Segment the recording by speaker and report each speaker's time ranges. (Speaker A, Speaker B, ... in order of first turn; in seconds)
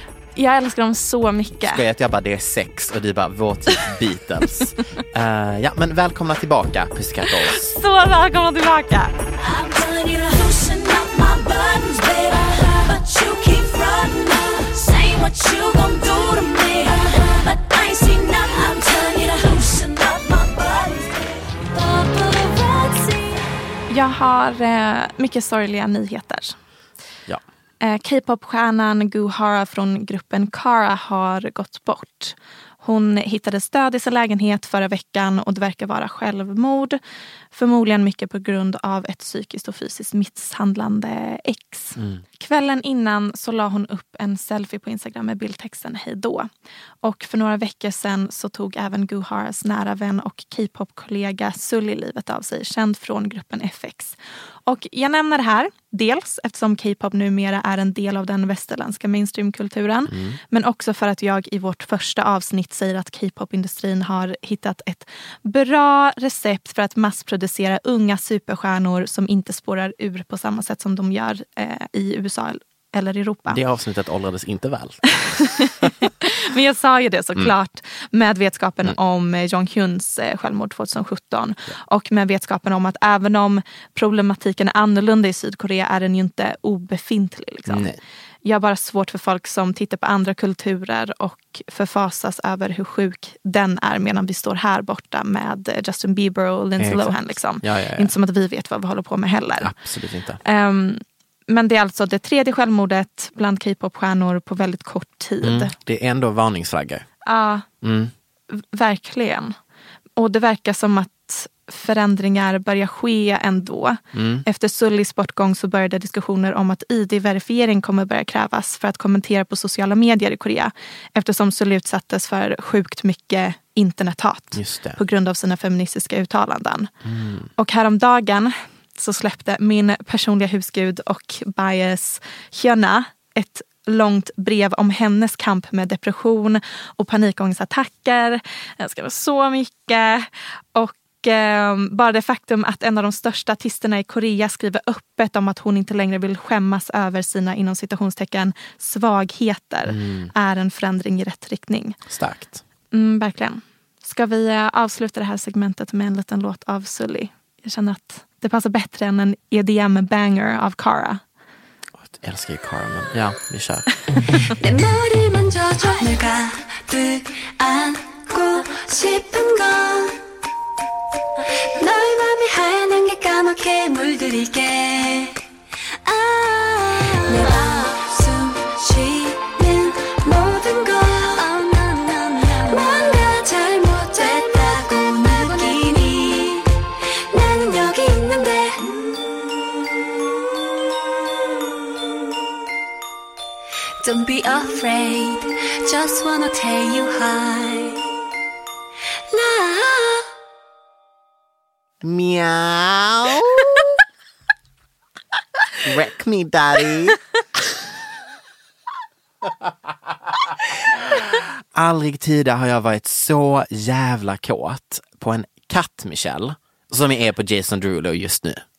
Speaker A: 0.4-1.8, 7.4-9.1, 23.9-26.6, 27.8-37.0, 37.5-46.5, 47.0-73.6, 75.3-87.9, 88.5-99.7, 100.4-105.7, 107.2-107.7, 108.5-109.5, 110.2-126.9, 127.6-152.0, 152.9-161.2
Speaker B: 1.6-7.7, 60.1-60.4, 73.5-75.9, 87.7-88.0, 96.8-98.1, 99.6-100.4, 105.4-107.0, 107.8-108.1, 114.1-114.5, 124.5-125.0, 127.0-127.5, 149.9-150.3, 152.1-152.6, 162.0-163.9, 202.0-203.9, 205.8-207.2, 211.2-218.6
Speaker C: 9.4-23.7, 164.6-170.2, 171.8-175.4, 176.1-186.7, 187.3-189.1, 194.0-198.1, 199.3-200.2